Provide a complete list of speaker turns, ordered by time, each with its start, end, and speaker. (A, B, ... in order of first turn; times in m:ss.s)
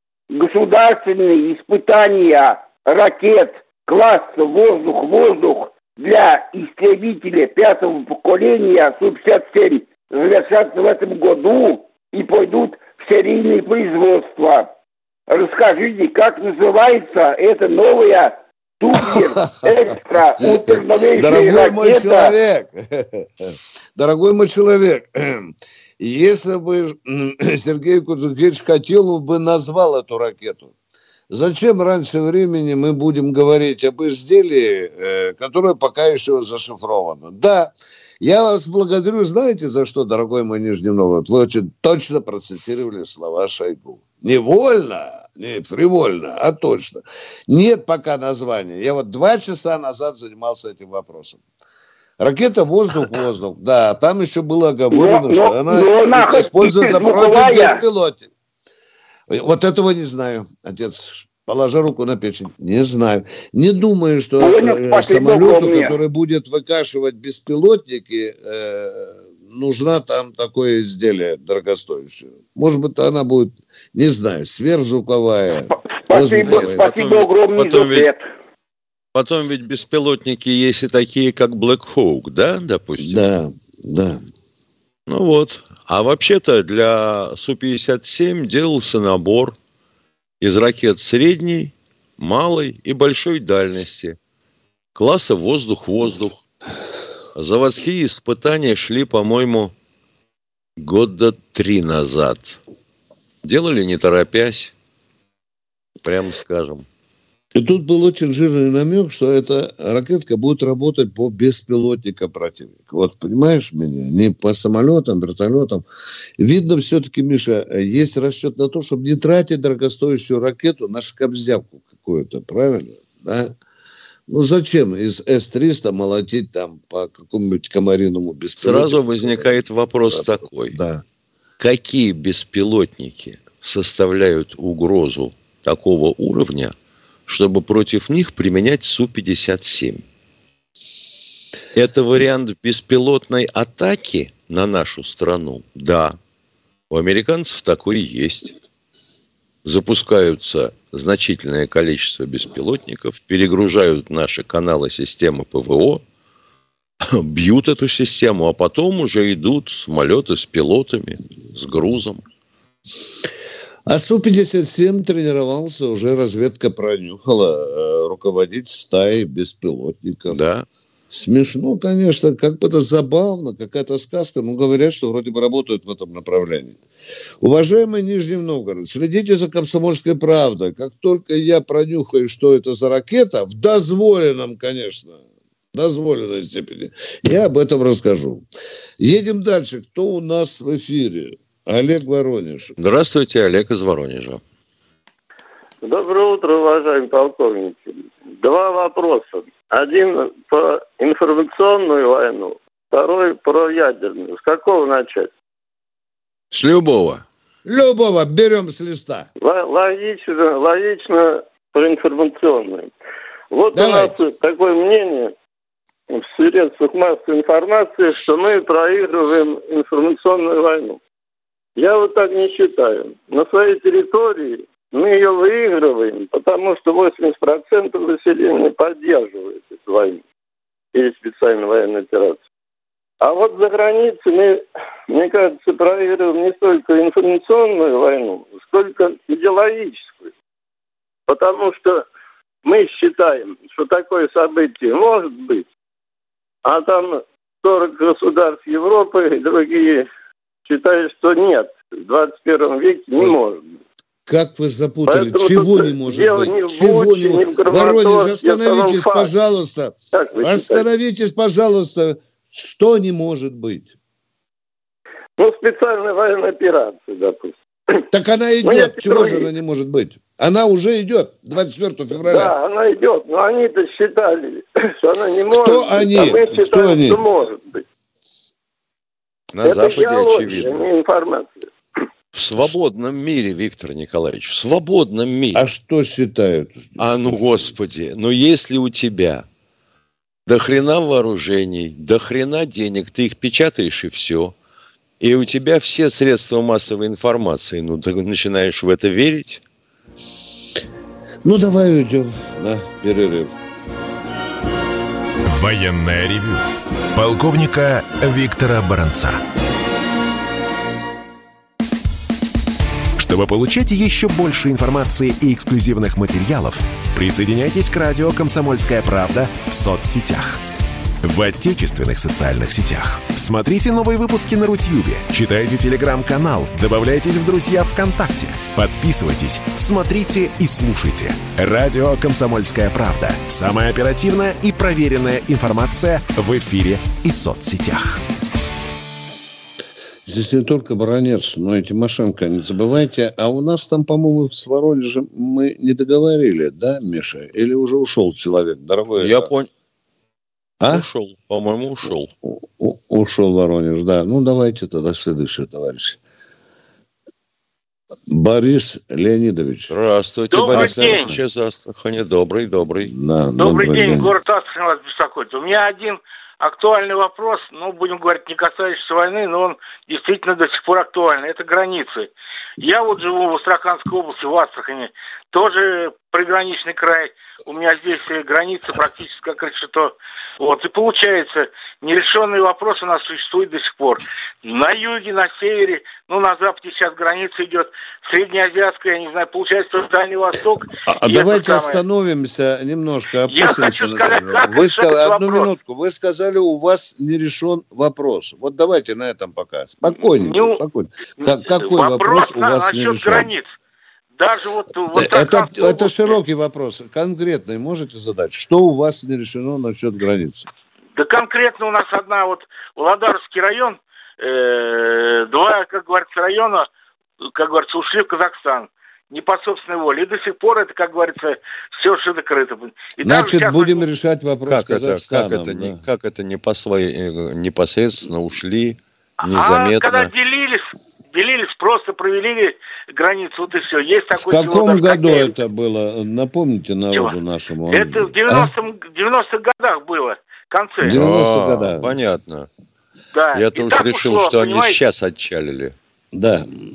0:00.3-0:14.7 A
0:15.3-0:22.3 A
0:18.9-0:19.7 B
0:20.4-0:30.7 B
0:31.3-0:51.4 B
0:52.2-0:58.3 B
0:54.9-0:57.8 A
0:59.3-1:16.8 B
1:04.4-1:06.0 A
1:15.7-1:18.2 A
1:16.4-1:18.1 C
1:19.1-1:23.3 C
1:23.0-1:24.2 B
1:25.1-1:29.5 C
1:30.4-1:34.2 C
1:34.9-1:36.4 C
1:37.3-1:39.7 C
1:40.8-1:42.6 C
1:43.4-1:44.7 C
1:46.0-1:46.8 C
1:47.5-1:55.8 B
1:56.4-2:03.5 B
2:04.3-2:11.0 B
2:08.6-2:10.8 C
2:11.6-2:16.7 C
2:17.3-2:20.0 C
2:21.7-2:26.2 C
2:26.9-2:28.5 C
2:29.6-2:36.0 C
2:37.0-2:42.2 C
2:43.9-2:50.4 B
2:50.3-2:50.6 C
2:51.1-2:56.8 B
2:57.4-3:05.2 B
3:05.7-3:08.4 B
3:09.0-3:12.8 B
3:12.8-3:14.4 C
3:15.8-3:25.3 D
3:26.5-3:27.2 C
3:27.6-3:29.3 B
3:29.4-3:32.9 D
3:33.5-3:35.3 D
3:33.7-3:34.2 B
3:36.1-3:41.0 D
3:41.8-3:50.2 D
3:50.9-3:52.4 D
3:53.2-4:00.3 D
4:01.3-4:02.1 D
4:02.6-4:05.6 D
4:06.6-4:10.1 D
4:10.6-4:13.8 D
4:14.3-4:23.9 B
4:15.0-4:19.3 D
4:20.1-4:20.8 D
4:25.4-4:28.0 D
4:28.1-4:32.5 B
4:28.6-4:29.5 D
4:32.2-4:37.8 D
4:35.5-4:37.2 B
4:39.5-4:40.9 C
4:39.6-4:41.7 D
4:42.3-4:45.7 C
4:45.5-4:47.7 B
4:47.0-4:49.4 C
4:50.5-4:54.5 C
4:55.2-4:59.6 C
5:01.4-5:03.6 B
5:05.4-5:09.4 E
5:13.2-5:20.6 E
5:21.2-5:38.2 E
5:40.2-5:49.5 B
5:49.2-5:49.7 C
5:50.8-5:51.0 B
5:50.9-5:52.3 C
5:52.4-5:56.2 B
5:58.3-5:59.9 B
5:59.9-6:03.1 C
6:00.5-6:01.3 F
6:00.6-6:01.4 B
6:03.1-6:04.3 B
6:03.6-6:32.0 F
6:31.0-6:43.5 B
6:33.5-6:35.7 F
6:40.0-6:40.8 F
6:41.4-6:43.6 F
6:44.4-6:46.4 F
6:45.1-6:50.7 B
6:51.1-6:56.9 F
6:57.4-7:04.1 F
7:03.2-7:06.0 B
7:04.7-7:10.3 C
7:09.4-7:15.6 F
7:14.3-7:18.7 B
7:17.1-7:17.4 F
7:17.9-7:21.2 F
7:21.0-7:22.2 B
7:21.1-7:22.7 C
7:23.3-7:25.0 F
7:23.5-7:25.9 C
7:26.3-7:26.6 B